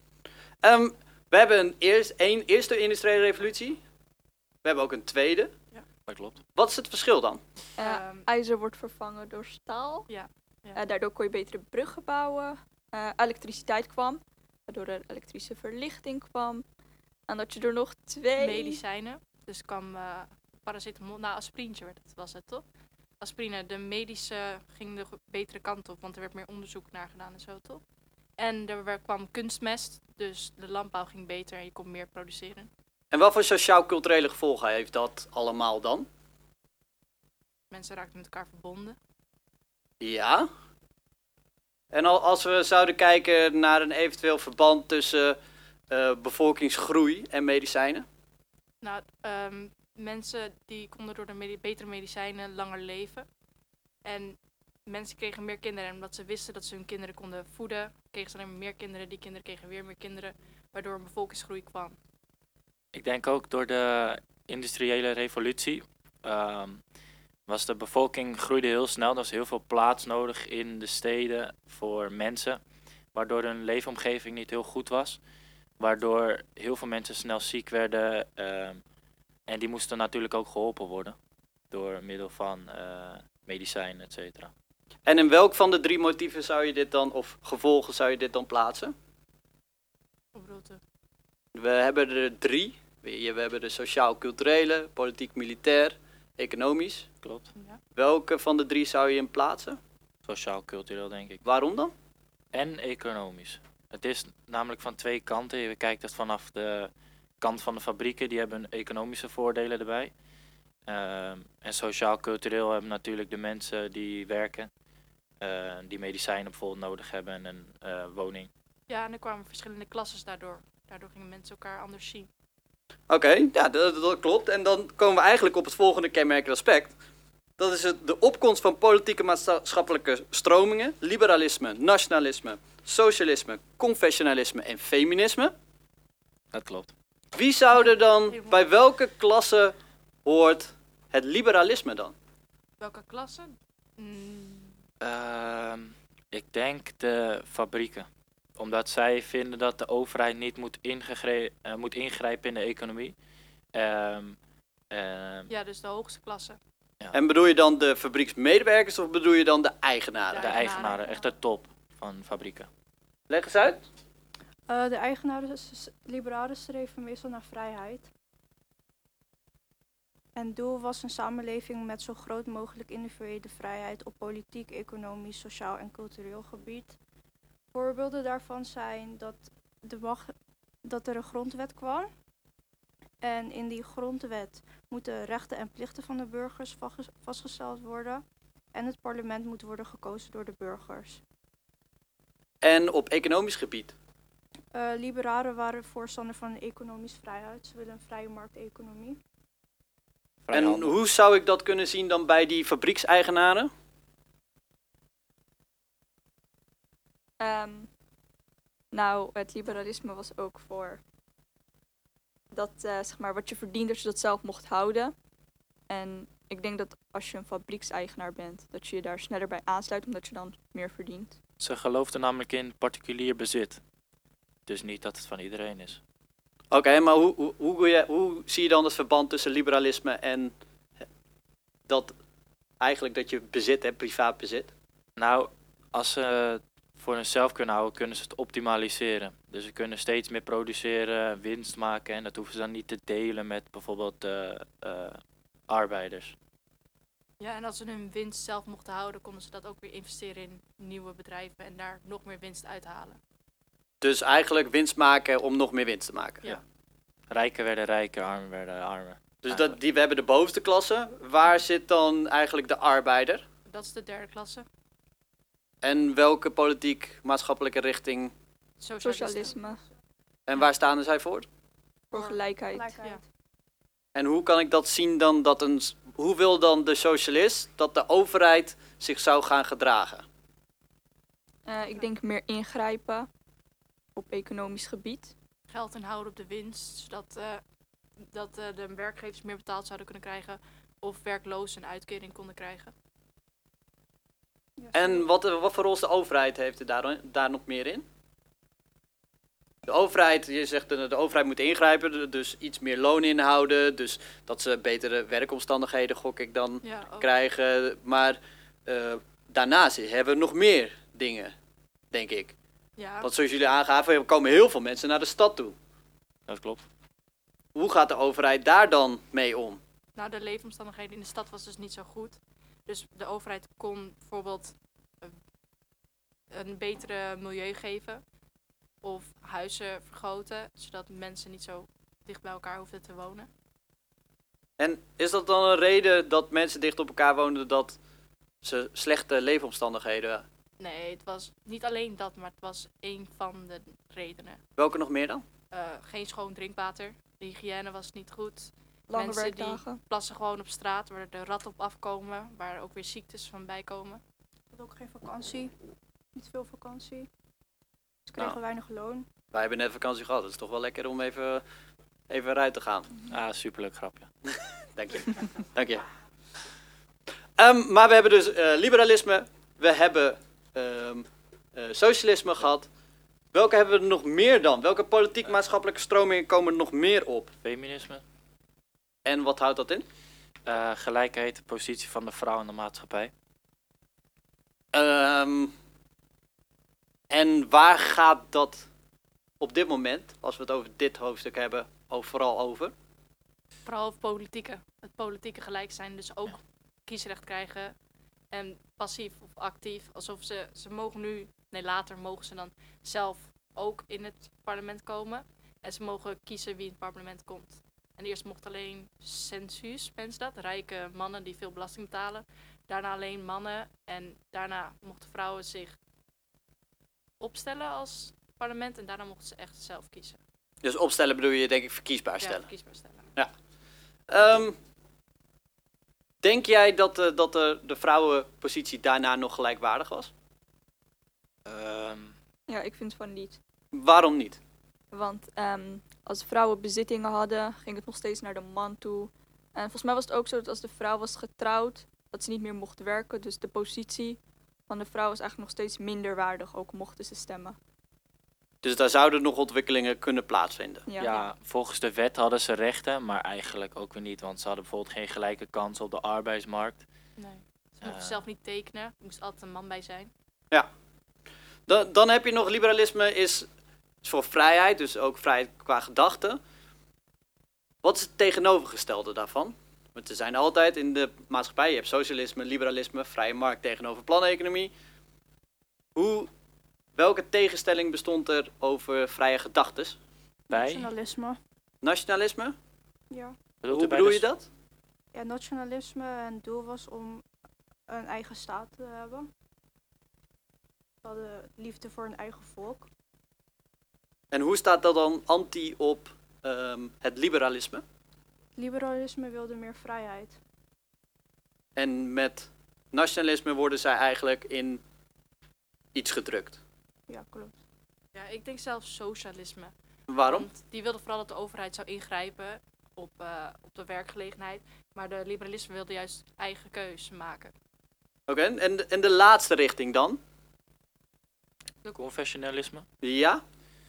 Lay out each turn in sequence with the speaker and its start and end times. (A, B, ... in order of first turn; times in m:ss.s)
0:00.6-0:03.8 A
0:04.6-0:05.5 A
0:06.1-0:06.4 B
0:06.6-0:07.4 A
0:07.8-0:10.1 C
0:07.8-0:08.3 D
0:10.1-0:10.8 D
0:10.7-0:16.6 C
0:17.3-0:18.8 C
0:18.4-0:22.6 D
0:23.2-0:27.8 D
0:28.4-0:32.7 D
0:33.1-0:36.1 A
0:37.7-0:39.0 D
0:40.0-0:40.5 A
0:41.9-0:45.4 A
0:45.9-0:48.0 A
0:48.8-0:53.3 D
0:54.0-1:02.0 D
1:02.9-1:06.8 B
1:07.5-1:12.6 B
1:13.1-1:15.2 B
1:15.8-1:18.8 B
1:19.5-1:21.2 B
1:21.7-1:24.5 B
1:25.0-1:28.9 A
1:30.3-1:30.8 D
1:31.5-1:37.1 A
1:37.2-1:37.5 B
1:37.9-1:39.8 A
1:40.2-1:41.4 B
1:41.4-1:41.9 A
1:42.5-1:50.1 B
1:50.9-1:54.7 B
1:55.4-1:58.5 B
1:58.9-2:02.3 D
2:03.1-2:06.9 A
2:07.6-2:15.5 A
2:16.5-2:16.9 B
2:17.3-2:22.1 A
2:17.7-2:18.6 D
2:22.8-2:24.8 D
2:25.0-2:33.1 B
2:33.7-2:34.4 B
2:34.9-2:35.5 B
2:35.5-2:36.6 D
2:37.1-2:40.6 A
2:40.3-2:41.3 D
2:40.4-2:42.7 B
2:43.3-2:43.8 A
2:44.7-2:48.1 E
2:50.3-2:57.0 E
2:57.7-3:00.3 E
3:00.8-3:02.1 E
3:03.2-3:11.2 E
3:12.6-3:13.9 A
3:14.7-3:19.2 E
3:20.4-3:20.9 B
3:20.5-3:23.7 A
3:27.4-3:27.9 C
3:28.9-3:31.0 C
3:32.5-3:35.1 C
3:35.9-3:41.4 C
3:41.6-3:43.8 B
3:44.7-3:46.0 B
3:46.7-3:50.5 A
3:51.9-3:52.1 A
3:52.8-3:54.7 A
3:55.2-4:06.4 B
4:07.4-4:13.2 D
4:14.0-4:16.5 A
4:17.3-4:19.8 B
4:19.4-4:23.4 A
4:23.7-4:24.6 D
4:25.8-4:28.3 A
4:28.8-4:29.6 D
4:29.0-4:29.8 C
4:30.5-4:31.4 A
4:32.1-4:32.9 C
4:32.2-4:33.2 E
4:34.1-4:40.2 A
4:41.6-4:43.3 C
4:44.2-4:45.3 C
4:45.7-4:47.6 D
4:48.2-4:52.9 D
4:54.8-4:55.3 E
4:54.9-4:58.0 A
4:59.8-5:11.5 A
5:06.8-5:07.3 D
5:12.1-5:12.5 A
5:13.0-5:13.3 D
5:13.2-5:15.8 A
5:16.5-5:16.8 B
5:17.7-5:19.8 A
5:20.2-5:25.3 D
5:26.5-5:28.2 D
5:29.0-5:33.5 D
5:34.8-5:38.0 A
5:38.6-5:40.4 A
5:40.8-5:44.6 D
5:44.8-5:45.4 A
5:45.7-5:54.2 D
5:49.1-5:50.0 C
5:54.7-5:55.7 E
5:56.3-5:57.3 E
5:58.3-5:59.3 E
5:59.5-6:01.6 A
6:02.3-6:03.1 A
6:03.3-6:04.3 B
6:05.0-6:06.0 A
6:07.6-6:12.9 A
6:13.5-6:17.5 A
6:17.6-6:18.2 B
6:19.2-6:20.0 A
6:20.6-6:23.3 B
6:24.9-6:25.7 A
6:27.3-6:28.9 A
6:29.6-6:32.9 A
6:33.8-6:37.9 D
6:38.5-6:55.9 D
6:57.4-7:00.4 D
7:00.8-7:02.6 A
7:02.4-7:03.3 D
7:04.3-7:04.8 A
7:06.4-7:10.3 A
7:11.6-7:12.3 B
7:12.7-7:13.6 C
7:13.9-7:14.6 A
7:15.1-7:27.8 C
7:28.8-7:31.0 A
7:31.1-7:31.4 C
7:31.2-7:37.0 B
7:37.4-7:40.3 D
7:38.0-7:38.4 B
7:41.9-7:43.7 A
7:44.2-7:46.6 A
7:48.0-7:54.9 A
7:56.1-7:56.5 A
7:57.2-8:00.2 A
8:00.7-8:01.6 E
8:00.7-8:01.1 B
8:02.0-8:02.7 A
8:03.3-8:03.6 E
8:03.8-8:04.5 B
8:03.9-8:04.7 A
8:05.3-8:07.4 E
8:08.1-8:09.5 E
8:11.2-8:13.1 E
8:14.5-8:18.0 A
8:18.8-8:20.6 E
8:22.0-8:25.0 A
8:26.1-8:26.8 A
8:27.3-8:27.7 E
8:28.3-8:37.7 D
8:30.3-8:30.7 A
8:38.5-8:40.4 A
8:42.1-8:43.0 B
8:43.2-8:43.6 A